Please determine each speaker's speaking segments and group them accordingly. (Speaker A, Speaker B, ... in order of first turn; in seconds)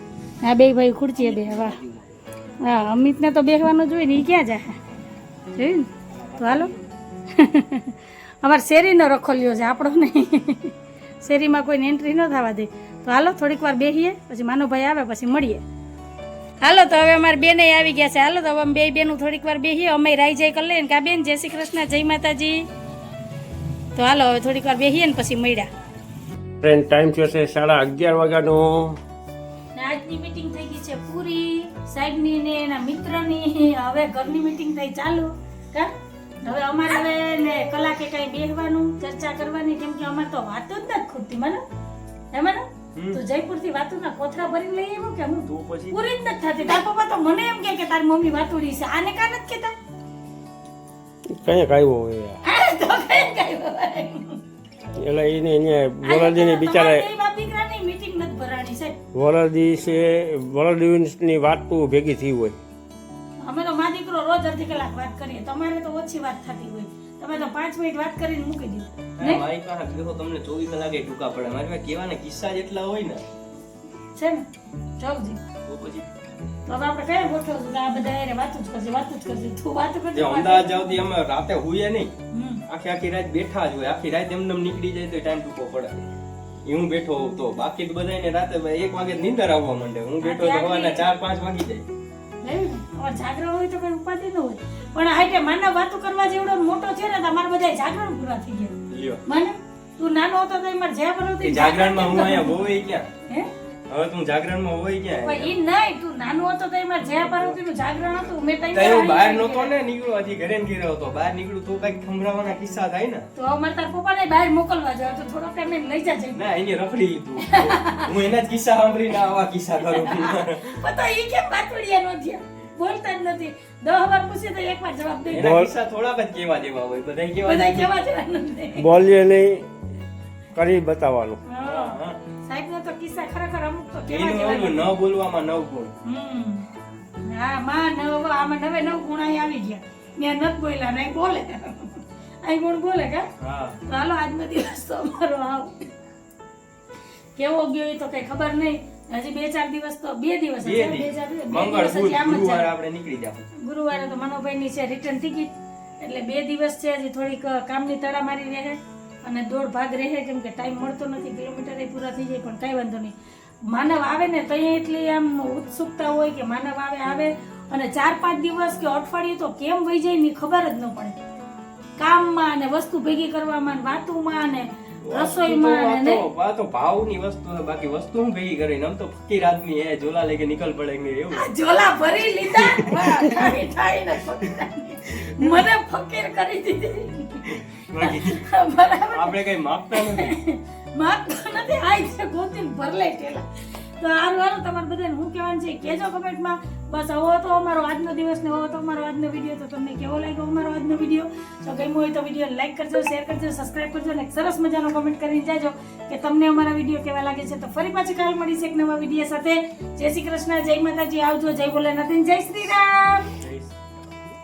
Speaker A: 0.4-1.8, 2.6-4.8, 5.5-6.7, 7.3-15.6, 16.6-22.7, 24.0-25.7, 29.7-41.6, 42.3-49.8, 52.4-54.4, 56.0-59.0, 63.4-69.4, 74.1-74.5, 75.0-75.4, 76.7-81.0, 82.3-82.6, 90.2-91.1, 92.4-102.6, 105.2-109.7, 113.4-116.4, 117.4-118.1, 119.8-125.5, 127.4-128.9, 131.5-134.9, 136.1-136.7, 137.2-143.3, 143.9-145.9, 147.4-152.7, 153.6-163.1, 163.7-171.2, 172.0-176.3, 181.3-189.4, 189.9-213.3
Speaker B: 1.2-2.0, 6.2-6.8, 43.0-43.2, 45.5-46.0, 69.2-73.2, 75.7-76.1, 80.1-82.1, 82.7-86.1, 86.7-91.9, 98.9-99.2, 101.4-103.1, 103.9-105.5, 108.7-113.2, 116.3-120.8, 125.3-127.9, 131.6-132.2, 134.1-135.9, 143.4-143.8, 150.6-153.4, 175.1-181.5, 182.6-183.4, 185.3-185.6, 187.5-188.5, 189.1-190.4, 213.4-214.2
Speaker C: 26.6-29.0, 51.3-52.4, 54.9-57.1, 59.1-62.6, 125.3-125.7, 128.8-129.7, 130.5-131.4